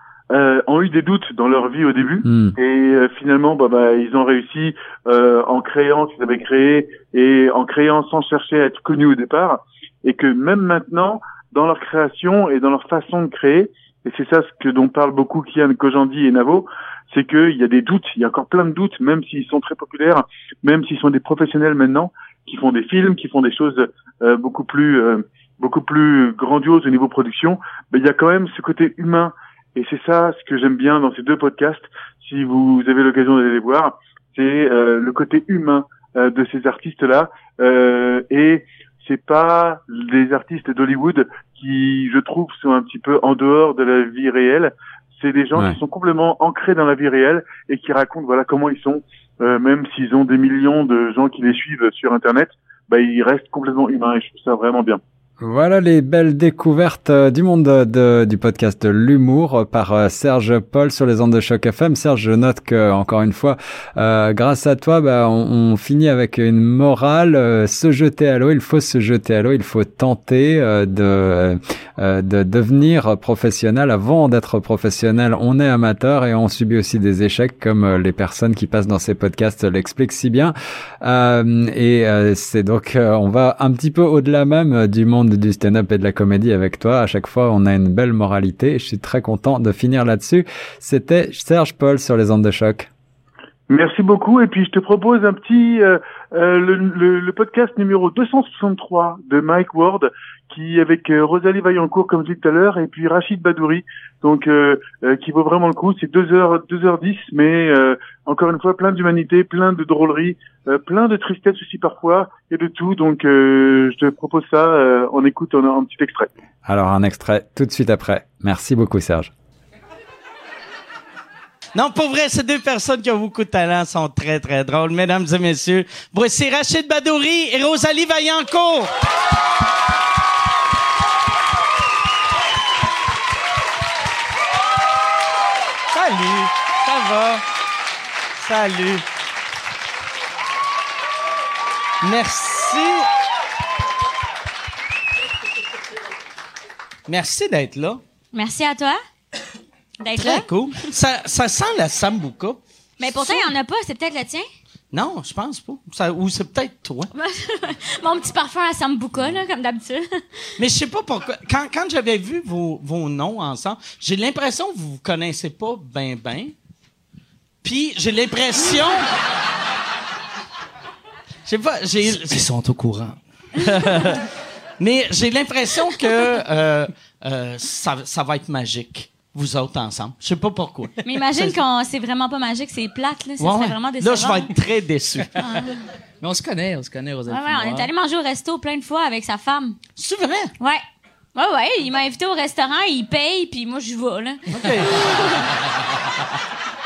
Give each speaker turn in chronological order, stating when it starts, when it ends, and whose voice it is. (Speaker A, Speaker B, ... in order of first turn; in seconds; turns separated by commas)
Speaker A: 0.3-55.0, Speaker B: 2.2-2.5, Speaker B: 55.4-92.9, Speaker A: 93.7-116.3, Speaker B: 116.7-119.3, Speaker C: 121.7-128.9, Speaker C: 135.9-137.4, Speaker C: 138.4-139.0, Speaker C: 142.0-143.0, Speaker C: 147.1-148.0, Speaker D: 148.3-149.0, Speaker D: 150.0-150.8, Speaker C: 150.2-152.6, Speaker D: 153.0-154.4, Speaker C: 153.2-153.5, Speaker C: 154.9-157.1, Speaker D: 157.1-160.6, Speaker C: 160.6-166.5, Speaker C: 167.6-169.1, Speaker C: 171.4-172.5, Speaker E: 172.1-173.2, Speaker C: 173.6-174.2, Speaker C: 174.8-181.6, Speaker D: 181.0-184.5, Speaker C: 183.4-185.3, Speaker D: 185.4-185.8, Speaker E: 186.2-187.9, Speaker D: 187.3-189.8, Speaker C: 189.9-190.5, Speaker D: 191.3-195.5, Speaker C: 194.5-195.2